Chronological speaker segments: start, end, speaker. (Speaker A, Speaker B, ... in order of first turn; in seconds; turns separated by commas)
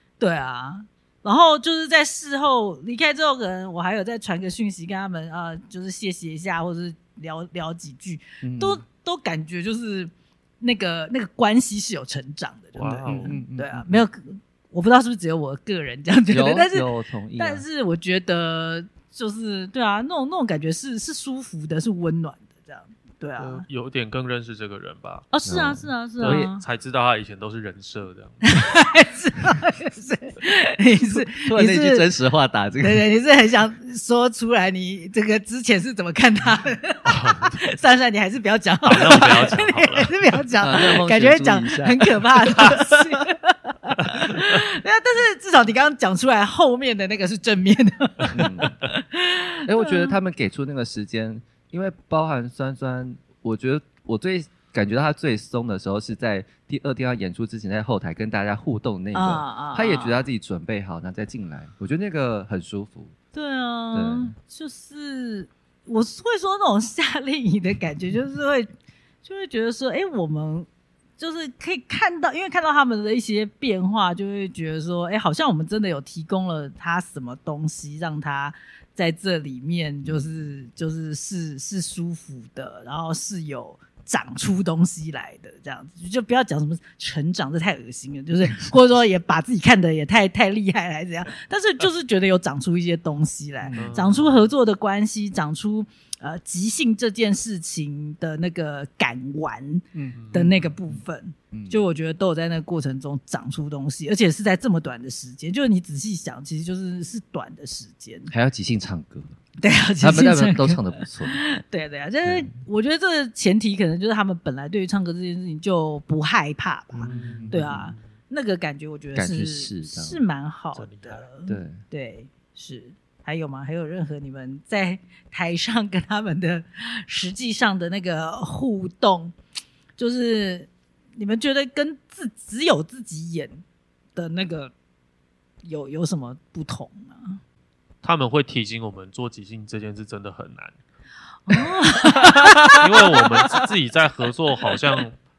Speaker A: 0.2-23.6, Speaker B: 8.4-8.8, Speaker C: 12.8-13.3, Speaker B: 13.0-14.0, Speaker B: 16.3-17.6, Speaker C: 23.4-25.3, Speaker A: 25.3-26.6, Speaker B: 25.4-26.5, Speaker C: 26.2-28.5, Speaker A: 28.4-32.1, Speaker B: 31.1-33.0, Speaker A: 32.8-50.1, Speaker C: 37.1-37.5, Speaker C: 38.8-40.1, Speaker B: 40.6-43.1, Speaker B: 48.3-48.7, Speaker B: 49.6-63.1, Speaker A: 59.1-60.2, Speaker A: 63.3-68.7, Speaker B: 63.9-64.3, Speaker A: 69.2-108.3, Speaker B: 93.6-94.2, Speaker C: 93.7-94.4, Speaker B: 99.9-101.0, Speaker C: 100.2-100.5, Speaker B: 101.5-101.8, Speaker B: 108.3-109.3, Speaker A: 109.6-129.3, Speaker B: 110.0-111.4, Speaker B: 112.2-112.5, Speaker B: 116.9-117.9, Speaker C: 117.0-118.0, Speaker B: 119.1-120.2, Speaker C: 120.8-121.2, Speaker B: 121.5-121.8, Speaker A: 130.0-133.6, Speaker A: 134.2-134.7, Speaker A: 135.6-137.4, Speaker C: 138.0-140.8, Speaker A: 141.5-143.7, Speaker C: 142.2-145.2